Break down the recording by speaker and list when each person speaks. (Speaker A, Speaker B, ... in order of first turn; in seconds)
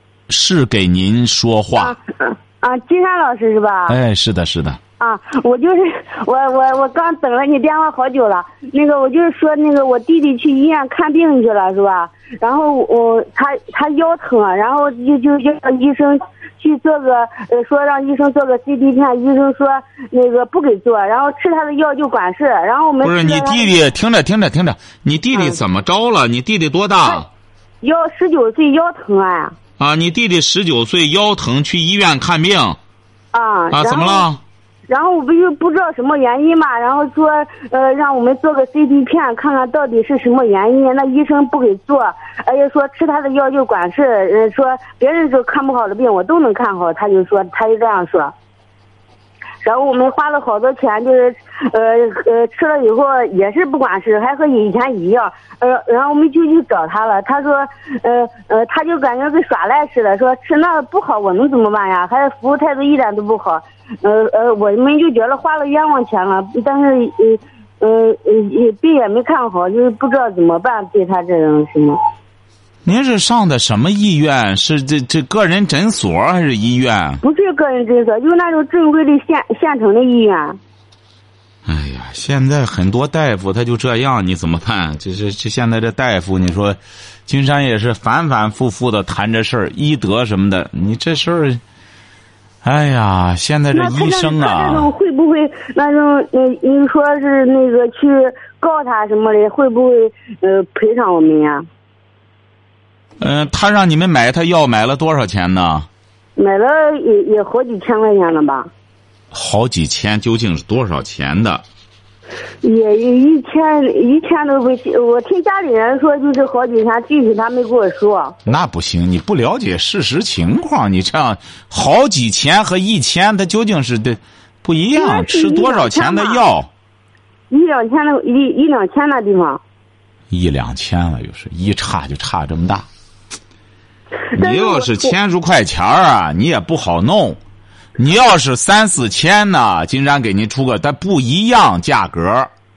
Speaker A: 0.3-1.9, 3.9-4.8, 23.0-27.3, 29.8-32.8, 33.7-34.4, 72.8-77.2, 81.7-91.6, 92.6-94.9, 103.2-105.9, 109.3-111.6, 118.4-126.7, 130.3-132.8, 134.3-137.4, 138.0-142.5
Speaker B: 1.8-4.0, 5.0-23.7, 25.3-25.6, 27.8-29.6, 33.3-34.3, 34.9-48.3, 49.6-72.0, 77.2-80.6, 93.7-101.7, 106.4-108.7, 112.6-118.3, 125.0-126.4, 127.5-129.6, 134.3-135.1